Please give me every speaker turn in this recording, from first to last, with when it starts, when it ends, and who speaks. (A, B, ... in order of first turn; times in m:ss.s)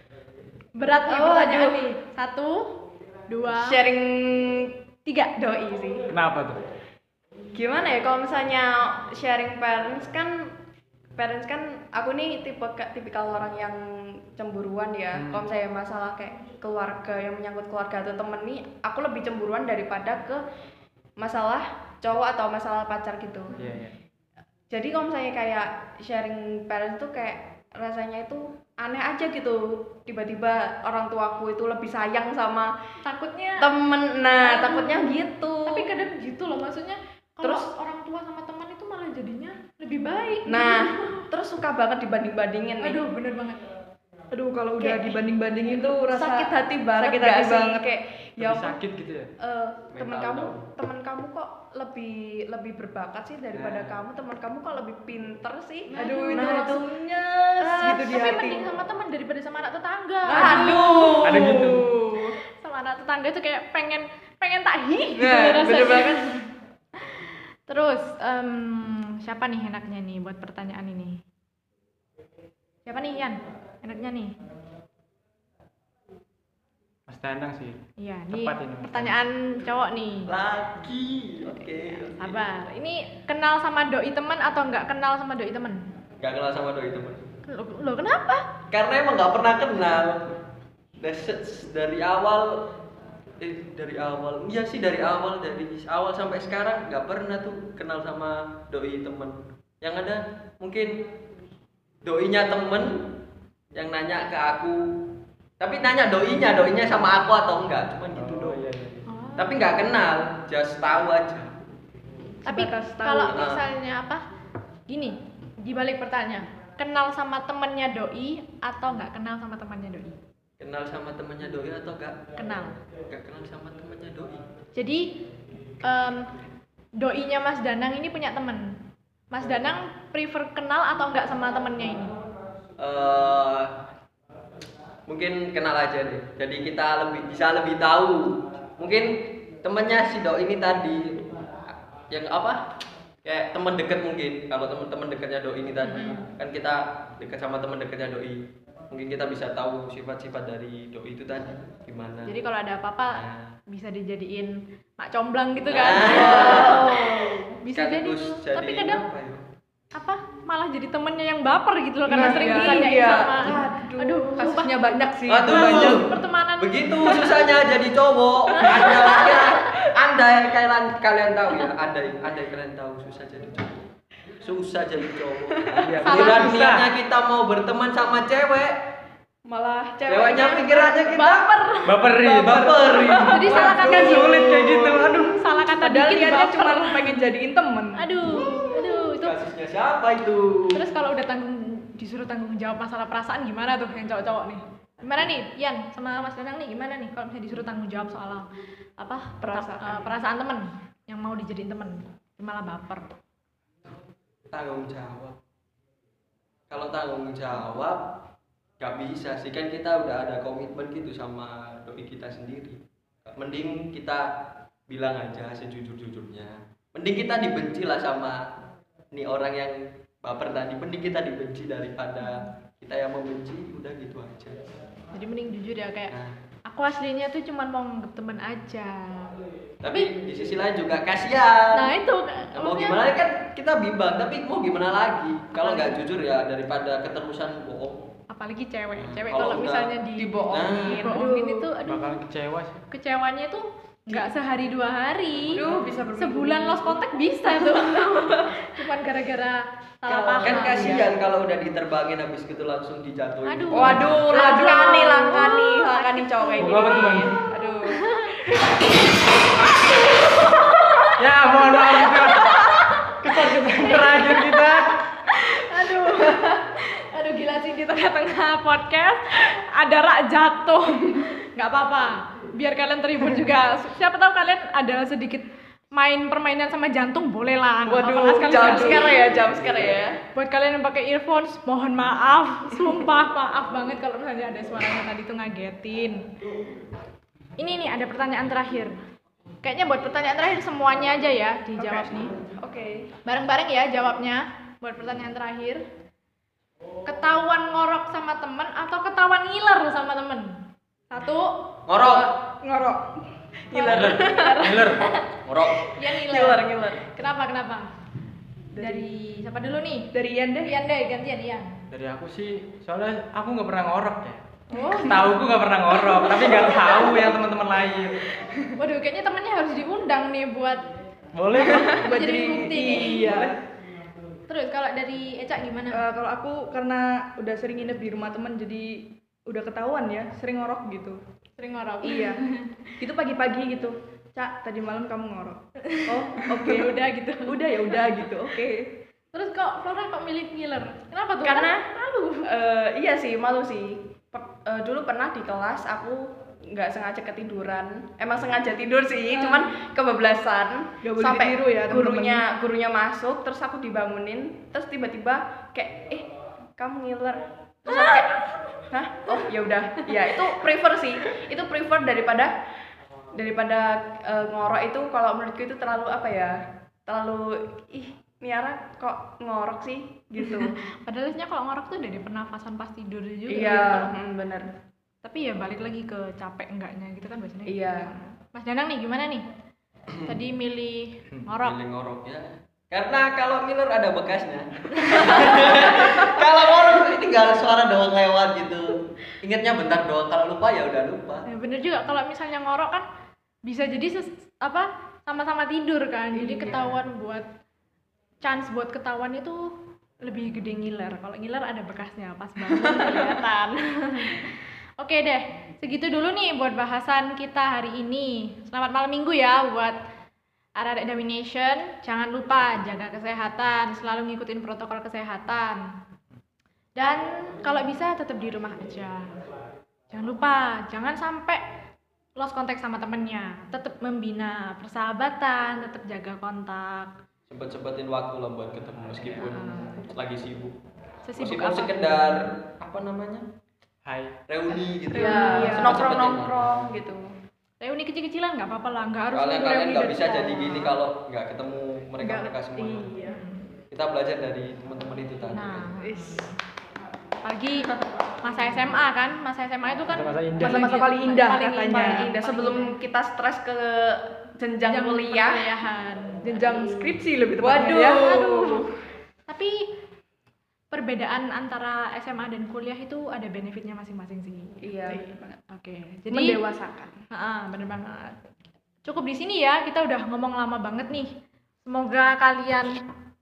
0:00.8-0:02.7 A
0:01.1-0:01.8 B
0:03.3-0:03.8 A
0:03.5-0:06.1 B
0:06.1-0:06.6 C
0:07.5-0:10.5 B
0:11.2-0:20.4 B
0:15.1-0:15.5 C
0:21.2-0:23.7 B
0:23.6-0:23.9 C
0:24.7-0:32.7 B
0:33.0-0:33.7 A
0:33.6-0:35.9 B
0:34.4-0:41.3 A
0:37.4-0:37.7 B
0:40.5-0:43.0 B
0:42.8-0:43.7 A
0:44.3-0:47.8 D
0:44.8-0:48.8 B
0:48.4-0:49.3 C
0:49.4-0:56.8 B
0:49.9-0:50.6 E
0:53.5-0:54.0 C
0:55.9-0:56.8 A
0:55.9-0:58.6 D
0:57.6-0:58.3 B
0:57.6-1:01.1 A
1:00.3-1:02.4 B
1:00.4-1:00.7 C
1:00.4-1:01.6 D
1:01.2-1:01.8 C
1:02.6-1:06.4 A
1:05.2-1:06.4 B
1:07.1-1:11.2 A
1:12.8-1:14.3 A
1:17.1-1:19.2 C
1:18.0-1:20.3 A
1:20.3-1:22.4 E
1:21.4-1:25.8 A
1:26.2-1:27.3 E
1:27.4-1:28.5 A
1:28.7-1:30.3 E
1:31.0-1:32.7 E
1:33.4-1:41.0 E
1:42.0-1:43.1 E
1:43.7-1:48.6 E
1:48.1-1:49.0 C
1:49.1-1:49.8 A
1:49.4-1:51.6 E
1:52.4-1:53.4 D
1:52.4-1:54.2 A
1:53.3-1:53.6 E
1:54.9-2:00.2 A
2:00.6-2:02.2 E
2:02.4-2:02.8 A
2:03.1-2:04.5 E
2:04.7-2:05.1 A
2:05.8-2:06.3 A
2:07.0-2:08.8 A
2:09.3-2:12.2 A
2:09.4-2:09.7 E
2:12.8-2:13.7 E
2:15.1-2:22.6 E
2:23.2-2:32.4 E
2:25.8-2:26.3 A
2:32.2-2:37.0 A
2:33.1-2:33.6 E
2:35.7-2:37.1 E
2:36.1-2:37.6 B
2:37.6-2:39.0 A
2:37.7-2:39.4 E
2:39.9-2:44.8 A
2:42.1-2:43.9 B
2:42.1-2:46.1 D
2:45.3-2:53.8 E
2:45.4-2:47.5 A
2:48.5-2:49.8 A
2:54.4-2:58.8 E
2:55.7-2:55.9 B
2:55.8-2:56.9 C
2:56.0-2:56.7 A
2:59.4-3:01.0 B
3:00.1-3:01.7 E
3:00.7-3:02.0 A
3:01.8-3:02.9 C
3:02.2-3:05.2 E
3:02.3-3:05.0 B
3:02.4-3:08.2 D
3:03.0-3:07.2 A
3:08.0-3:09.3 A
3:09.2-3:10.8 E
3:10.7-3:18.5 A
3:19.0-3:23.2 A
3:19.4-3:20.1 B
3:24.5-3:25.4 E
3:26.7-3:28.1 E
3:28.8-3:38.4 E
3:39.1-3:44.7 E
3:45.1-3:46.1 A
3:46.1-3:46.3 E
3:46.7-3:49.3 A
3:49.8-3:51.9 E
3:49.9-3:50.1 A
3:51.7-3:53.0 A
3:52.5-3:58.1 E
3:55.6-3:56.0 A
3:58.3-4:02.2 A
3:59.0-4:01.0 E
4:00.5-4:01.6 B
4:00.9-4:01.6 D
4:01.8-4:02.8 C
4:02.9-4:11.1 A
4:05.5-4:06.8 D
4:05.6-4:06.3 B
4:07.6-4:08.6 B
4:10.1-4:14.3 E
4:10.4-4:11.0 B
4:13.4-4:17.2 A
4:13.7-4:18.7 B
4:16.6-4:17.4 C
4:17.9-4:18.6 A
4:20.1-4:39.3 A
4:21.2-4:25.0 C
4:37.8-4:40.2 B
4:40.3-4:46.3 A
4:47.6-4:49.0 A
4:49.6-4:52.3 A
4:52.5-4:53.1 B
4:53.2-4:55.8 A
4:57.0-5:02.2 A
5:01.9-5:02.3 E
5:02.0-5:03.2 D
5:03.7-5:05.3 A
5:03.7-5:05.0 B
5:03.8-5:04.1 E
5:03.9-5:05.1 C
5:05.4-5:05.9 E
5:05.8-5:07.9 A
5:06.0-5:07.0 B
5:08.8-5:10.1 A
5:10.1-5:10.7 D
5:10.6-5:11.7 A
5:11.9-5:14.4 C
5:14.7-5:15.3 A
5:15.0-5:18.2 C
5:16.1-5:17.2 A
5:18.7-5:20.9 A
5:21.3-5:22.0 C
5:21.5-5:23.5 A
5:22.0-5:23.5 D
5:24.5-5:26.0 A
5:25.9-5:31.2 D
5:31.6-5:32.9 A
5:32.0-5:32.4 D
5:33.0-5:38.7 D
5:35.8-5:38.2 A
5:39.3-5:42.5 A
5:41.4-5:41.8 B
5:42.4-6:02.5 B
5:49.3-5:49.6 A
5:51.0-5:52.4 D
5:57.9-5:58.8 A
6:03.3-6:10.8 B
6:10.4-6:14.1 A
6:13.5-6:14.7 B
6:15.2-6:19.4 A
6:17.6-6:18.1 B
6:20.2-6:21.8 A
6:21.6-6:31.4 E
6:25.0-6:26.1 A
6:31.5-6:33.0 A
6:33.6-6:37.5 A
6:36.4-6:36.8 D
6:38.4-6:50.0 A
6:50.8-6:55.8 A
6:57.0-6:59.3 A
7:00.1-7:01.6 A
7:02.4-7:07.2 A
7:07.5-7:10.7 E
7:09.4-7:10.1 A
7:11.2-7:12.2 A
7:11.4-7:13.5 E
7:14.0-7:14.4 C
7:14.5-7:16.8 E
7:15.1-7:16.3 A
7:15.1-7:17.3 B
7:15.4-7:16.0 D
7:17.8-7:20.9 A
7:19.3-7:23.2 E
7:22.7-7:23.4 D
7:23.2-7:23.7 A
7:23.9-7:25.8 E
7:25.5-7:26.6 A
7:26.0-7:26.5 D
7:27.4-7:33.0 A
7:30.1-7:30.8 C
7:30.6-7:32.3 D
7:31.9-7:35.7 B
7:34.9-7:37.1 A
7:36.4-7:38.7 D
7:37.6-7:38.8 B
7:38.0-7:38.8 A
7:39.5-7:39.8 A
7:40.9-7:46.6 A
7:44.8-7:45.5 B
7:46.3-7:47.2 D
7:47.3-7:48.5 A
7:49.0-7:51.3 A
7:51.8-7:53.0 A